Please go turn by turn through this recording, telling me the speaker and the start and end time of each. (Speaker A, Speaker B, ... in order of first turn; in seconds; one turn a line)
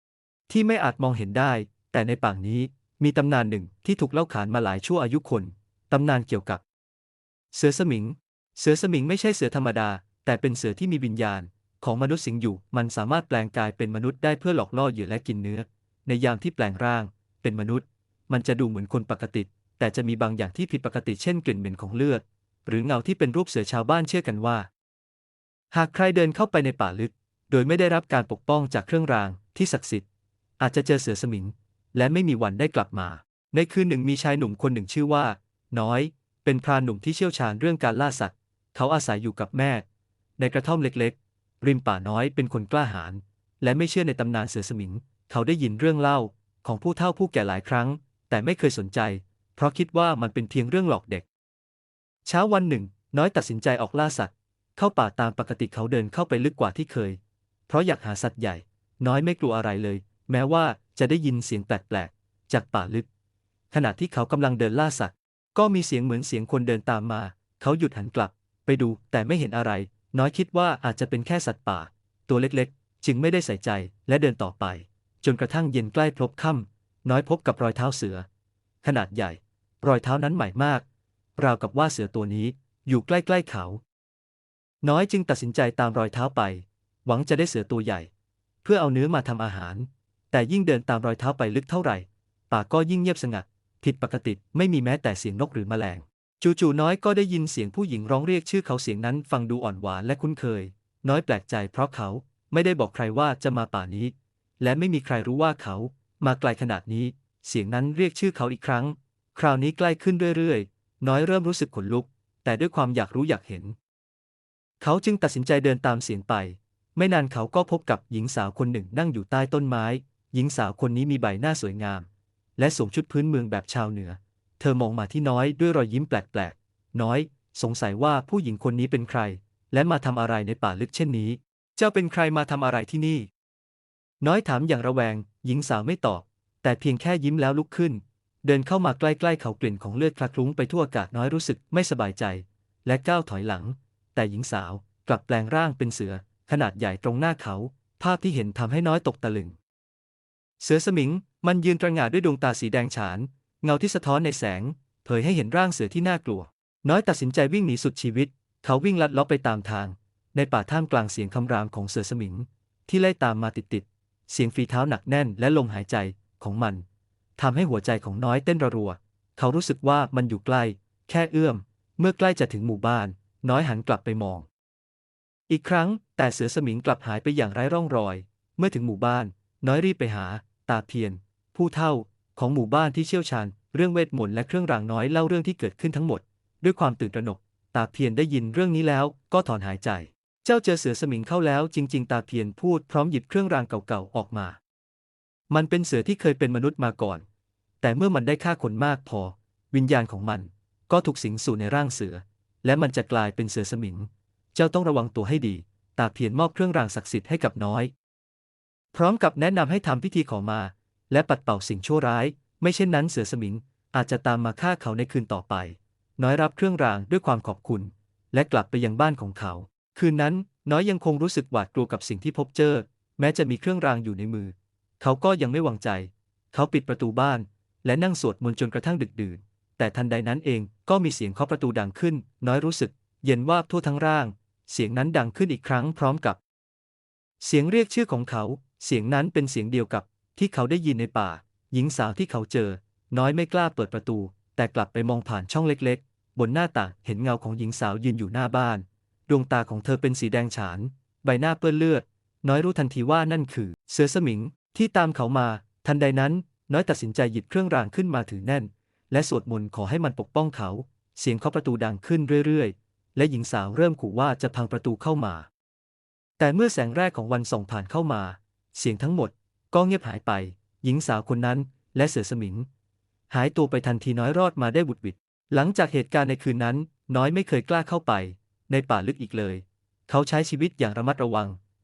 Speaker A: 0.5-6.6
Speaker A: 7.5-24.7
Speaker A: 25.7-30.1
Speaker A: 30.6-39.8
Speaker A: 40.4-51.3
Speaker A: 52.2-63.1
Speaker A: 63.7-78.3
Speaker A: 78.8-80.8
Speaker A: 81.4-83.8
Speaker A: 84.8-88.1
Speaker A: 88.6-113.8
Speaker A: 114.8-133.3
Speaker A: 134.2-149.6
Speaker A: 150.6-166.8
Speaker A: 167.4-174.5
Speaker A: 175.5-194.6
Speaker A: 195.5-197.2
Speaker A: 197.8-207.9
Speaker A: 208.9-236.4
Speaker A: 237.4-265.5
Speaker A: 266.4-272.7
Speaker A: 273.3-281.6